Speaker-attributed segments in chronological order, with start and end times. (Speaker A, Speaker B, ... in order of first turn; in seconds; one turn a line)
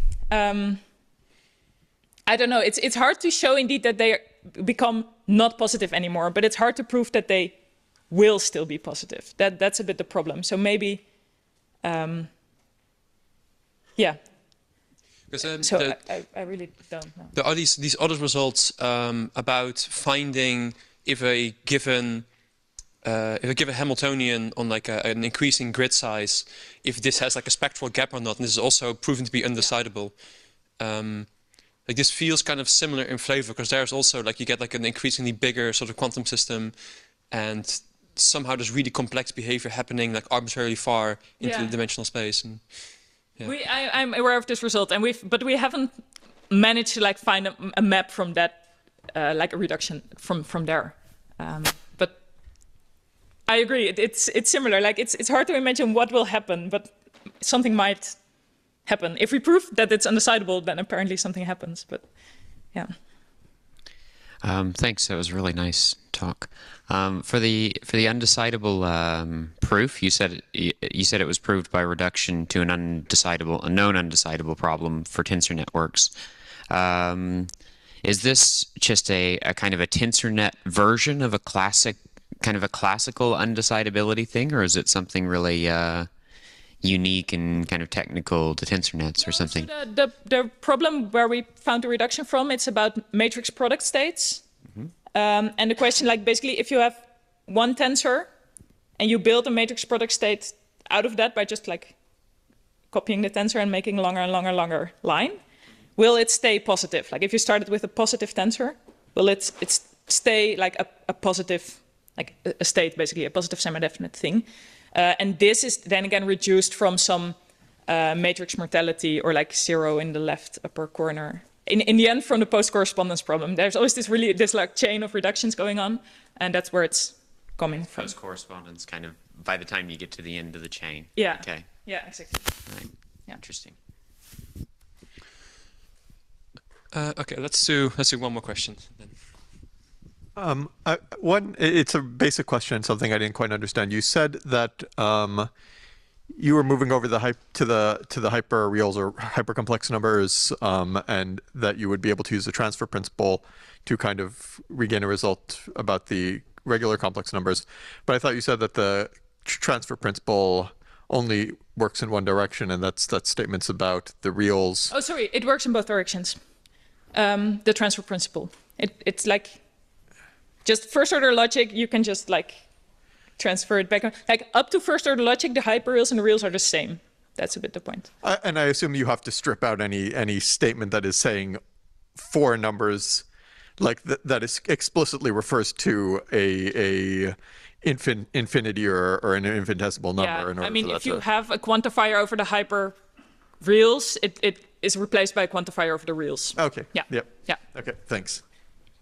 Speaker A: 0.3-0.8
Speaker A: 2.2-7.5
Speaker A: 8.1-11.0
Speaker A: 11.8-12.3
Speaker B: 15.3-16.0
Speaker A: 15.6-17.3
Speaker B: 17.3-22.3
Speaker B: 23.0-30.2
Speaker B: 30.8-31.3
Speaker B: 31.8-36.8
Speaker B: 37.3-42.9
Speaker A: 41.4-41.7
Speaker A: 43.4-46.0
Speaker A: 46.5-52.2
Speaker A: 53.5-58.2
Speaker A: 58.9-62.1
Speaker C: 64.4-76.1
Speaker C: 76.7-77.5
Speaker C: 78.0-86.1
Speaker C: 86.8-89.7
Speaker A: 89.2-94.4
Speaker A: 95.1-98.3
Speaker A: 99.0-102.0
Speaker A: 102.9-105.4
Speaker A: 106.0-128.1
Speaker C: 127.9-131.8
Speaker A: 131.1-132.6
Speaker C: 132.7-133.8
Speaker B: 136.9-139.2
Speaker D: 140.3-145.5
Speaker D: 146.3-164.9
Speaker A: 164.9-166.4
Speaker A: 167.1-169.6
Speaker A: 170.6-172.6
Speaker A: 173.4-178.1
Speaker D: 178.2-181.6
Speaker D: 182.2-183.2
Speaker D: 183.8-191.2
Speaker A: 190.2-192.9
Speaker A: 193.6-197.6
Speaker D: 196.6-198.4